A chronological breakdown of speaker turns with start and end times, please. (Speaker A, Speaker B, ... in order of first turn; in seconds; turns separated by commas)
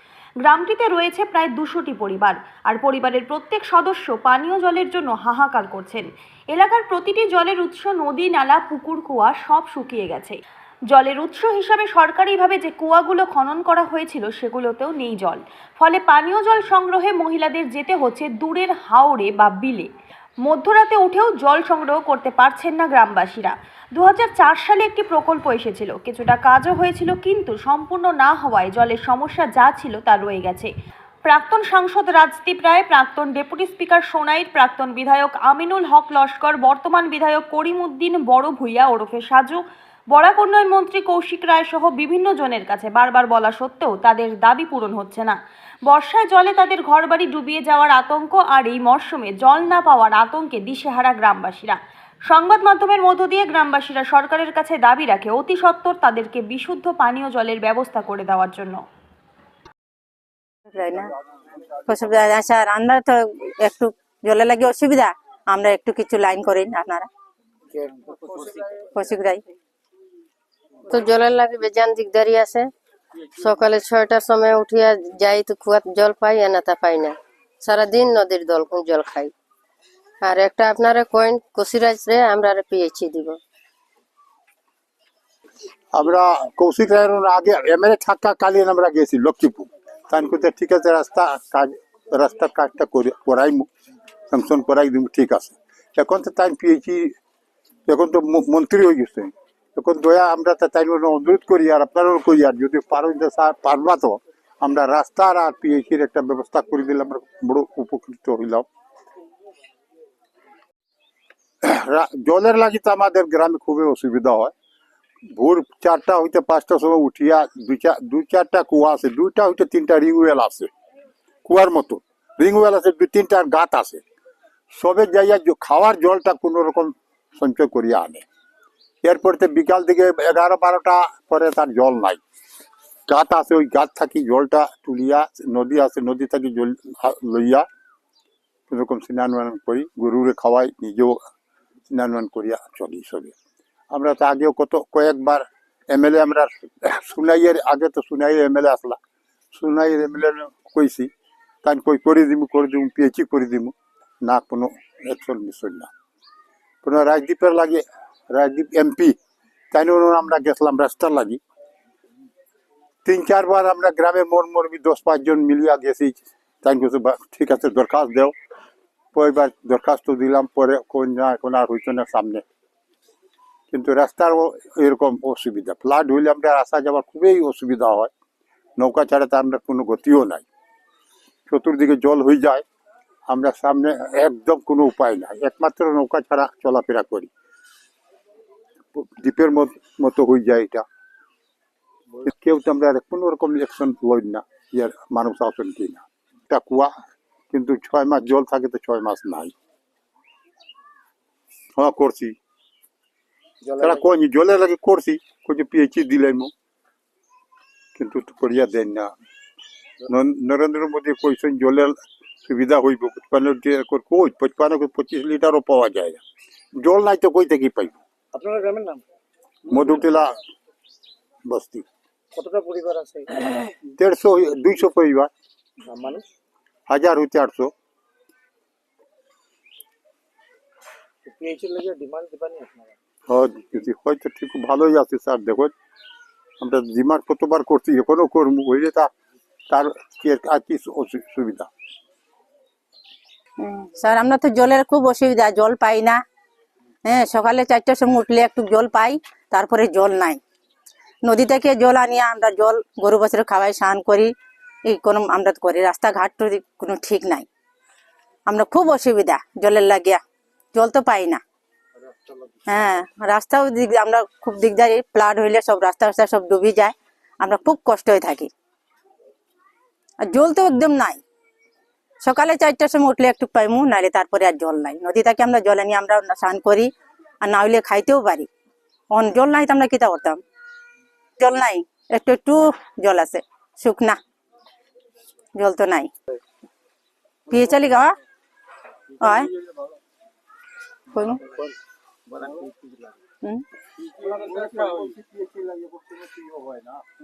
Speaker A: 0.4-10.4, Speaker A: 10.9-19.9, Speaker A: 20.4-30.7, Speaker A: 31.2-58.8, Speaker B: 60.7-61.1, Speaker B: 61.8-67.1, Speaker C: 67.7-68.6, Speaker B: 68.9-69.4, Speaker D: 70.9-72.7, Speaker D: 73.3-79.3, Speaker D: 80.2-83.4, Speaker E: 85.9-93.7, Speaker E: 94.3-97.1, Speaker E: 97.9-108.7, Speaker E: 111.6-114.5, Speaker E: 115.3-120.7, Speaker E: 121.5-124.0, Speaker E: 124.7-128.2, Speaker E: 129.0-132.2, Speaker E: 133.1-137.7, Speaker E: 138.7-141.2, Speaker E: 141.9-143.3, Speaker E: 143.9-149.0, Speaker E: 149.5-151.1, Speaker E: 151.6-155.9, Speaker E: 156.8-159.2, Speaker E: 159.7-161.4, Speaker E: 163.0-168.3, Speaker E: 169.1-172.4, Speaker E: 173.7-178.1, Speaker E: 178.8-180.4, Speaker E: 181.5-182.6, Speaker E: 183.3-187.3, Speaker E: 188.9-190.8, Speaker E: 192.2-196.9, Speaker E: 197.5-199.5, Speaker E: 201.8-202.3, Speaker C: 203.6-204.1, Speaker E: 203.8-206.5, Speaker E: 207.9-209.1, Speaker E: 210.1-216.2, Speaker E: 216.8-218.0, Speaker C: 218.3-219.0, Speaker C: 219.7-220.2, Speaker E: 219.7-220.3, Speaker E: 221.4-221.8, Speaker C: 222.3-223.7, Speaker E: 223.9-225.3, Speaker C: 225.8-226.2, Speaker E: 226.9-227.7, Speaker C: 231.2-233.0, Speaker E: 233.3-235.7, Speaker E: 236.6-239.1, Speaker E: 239.7-241.7, Speaker B: 243.6-246.2, Speaker B: 247.0-250.4, Speaker B: 251.2-254.3, Speaker B: 254.9-257.4, Speaker B: 258.5-260.2, Speaker B: 260.7-261.4, Speaker C: 262.1-262.4, Speaker B: 262.7-268.5, Speaker B: 270.2-271.2, Speaker B: 272.2-276.9, Speaker B: 277.4-278.5, Speaker B: 279.1-280.4, Speaker B: 281.4-284.2, Speaker B: 285.6-286.1, Speaker B: 287.5-288.2, Speaker B: 289.2-289.5, Speaker B: 291.1-291.4, Speaker C: 291.5-291.7, Speaker C: 292.3-293.2, Speaker C: 294.2-295.1